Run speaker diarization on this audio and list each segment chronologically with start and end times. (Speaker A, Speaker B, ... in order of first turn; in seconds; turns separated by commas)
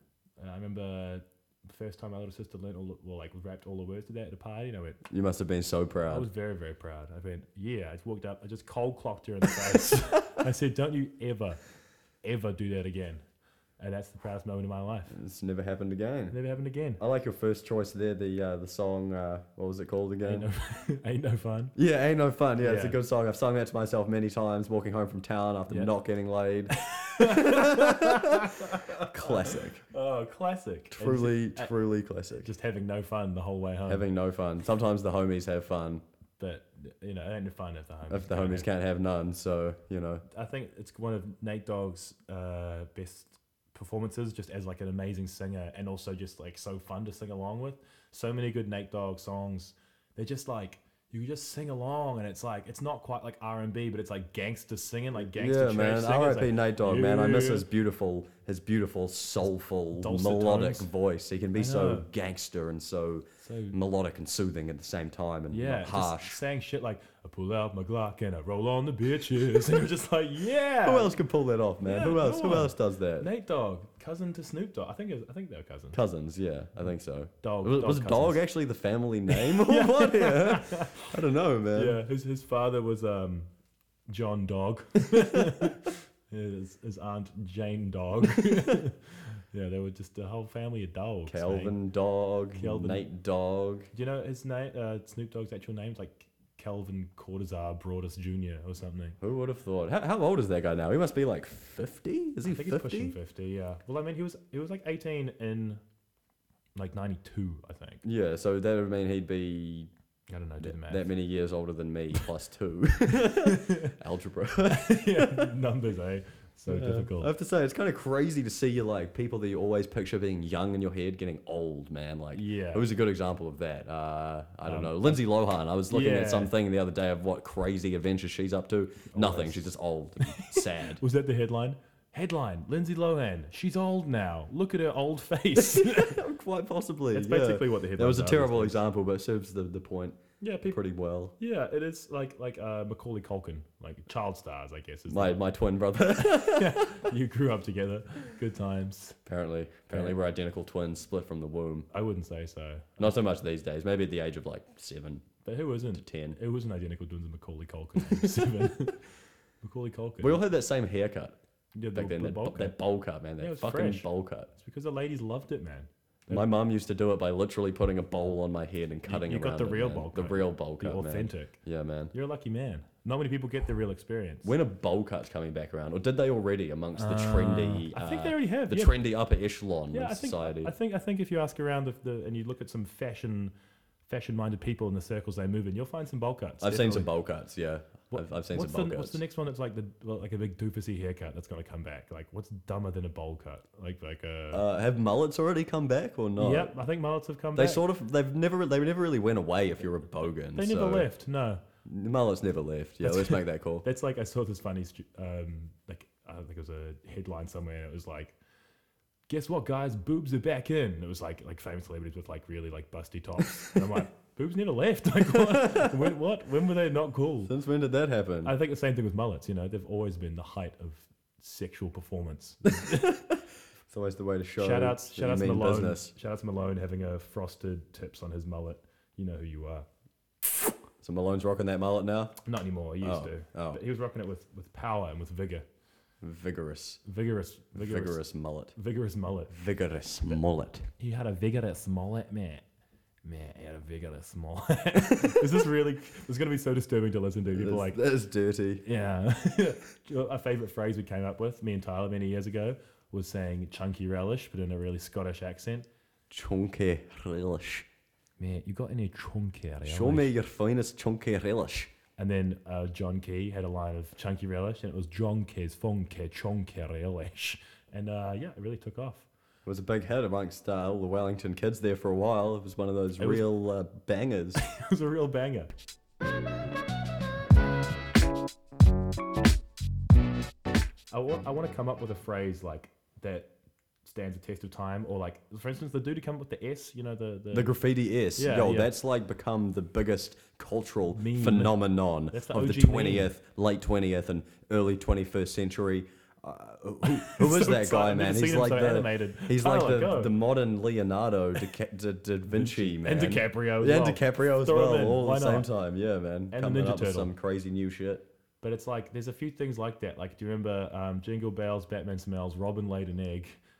Speaker A: 0.4-5.0, Speaker B: 5.1-6.3, Speaker A: 6.1-11.6, Speaker A: 12.2-13.2, Speaker A: 13.8-15.1, Speaker B: 15.1-16.4, Speaker A: 16.3-17.0, Speaker B: 17.0-20.4, Speaker A: 20.2-21.7, Speaker B: 21.7-29.8, Speaker A: 22.6-23.0, Speaker A: 26.7-31.7, Speaker B: 30.9-32.5, Speaker A: 32.4-34.0, Speaker B: 33.9-36.0, Speaker A: 36.4-38.6, Speaker B: 38.1-40.2, Speaker A: 40.3-57.6, Speaker B: 55.2-66.4, Speaker A: 60.0-60.9, Speaker A: 61.5-62.0, Speaker A: 63.4-63.8, Speaker A: 65.5-71.2, Speaker B: 70.8-73.3, Speaker A: 71.8-76.0, Speaker B: 75.9-82.0, Speaker A: 77.4-78.4, Speaker A: 79.3-81.1, Speaker A: 81.7-83.5, Speaker A: 84.1-91.7, Speaker B: 91.3-93.9, Speaker A: 92.5-93.0, Speaker A: 93.9-99.2, Speaker B: 99.2-103.2, Speaker A: 102.4-105.8, Speaker A: 106.7-108.0, Speaker B: 108.0-109.9, Speaker A: 110.3-111.1, Speaker B: 110.6-115.5, Speaker A: 113.5-113.9, Speaker A: 114.6-117.3, Speaker B: 116.7-131.0, Speaker A: 122.3-122.8, Speaker A: 124.6-125.2, Speaker A: 125.9-126.5, Speaker A: 129.1-136.2, Speaker B: 135.6-141.3, Speaker A: 137.1-138.8, Speaker A: 140.4-140.8, Speaker A: 141.4-145.4, Speaker B: 145.1-147.0, Speaker A: 146.2-149.2, Speaker B: 149.2-151.9, Speaker A: 149.9-150.1, Speaker A: 151.9-153.1, Speaker B: 153.0-155.2, Speaker A: 155.4-159.0, Speaker B: 155.9-156.4, Speaker B: 158.0-158.4, Speaker A: 159.6-160.4, Speaker B: 160.2-161.3, Speaker A: 161.7-162.8, Speaker B: 161.9-164.5, Speaker A: 163.4-166.5, Speaker B: 166.3-172.1, Speaker A: 169.1-171.6, Speaker A: 172.1-174.5, Speaker B: 174.4-180.7, Speaker A: 176.9-178.9, Speaker A: 179.9-183.5, Speaker A: 184.1-187.1, Speaker B: 186.6-189.2, Speaker A: 188.1-194.6, Speaker B: 194.5-196.7, Speaker A: 196.4-197.8, Speaker B: 197.5-201.1, Speaker A: 200.5-201.6, Speaker B: 201.8-203.8, Speaker A: 203.0-208.3, Speaker A: 209.3-217.5, Speaker B: 215.3-215.9, Speaker B: 217.5-218.5, Speaker A: 218.4-223.0, Speaker B: 222.7-226.1, Speaker A: 224.6-229.9, Speaker B: 231.0-232.4, Speaker A: 232.4-235.7, Speaker B: 233.0-233.8, Speaker B: 236.2-237.0, Speaker A: 237.0-238.2, Speaker B: 237.7-238.7, Speaker A: 238.7-239.5, Speaker B: 239.5-240.9, Speaker A: 241.0-242.6, Speaker A: 243.2-248.0, Speaker B: 245.1-245.5, Speaker B: 247.5-248.8, Speaker A: 248.8-255.9, Speaker B: 256.3-257.9, Speaker A: 258.4-260.3, Speaker B: 259.8-261.9, Speaker A: 262.2-269.3, Speaker B: 269.6-274.6, Speaker A: 273.2-273.5, Speaker A: 274.6-275.7, Speaker A: 281.1-283.5, Speaker A: 284.0-287.7, Speaker B: 287.5-308.2, Speaker A: 288.4-288.9, Speaker A: 291.1-291.8, Speaker A: 292.3-293.3, Speaker A: 297.1-300.3, Speaker A: 302.5-305.7, Speaker A: 306.5-307.3, Speaker A: 308.6-313.6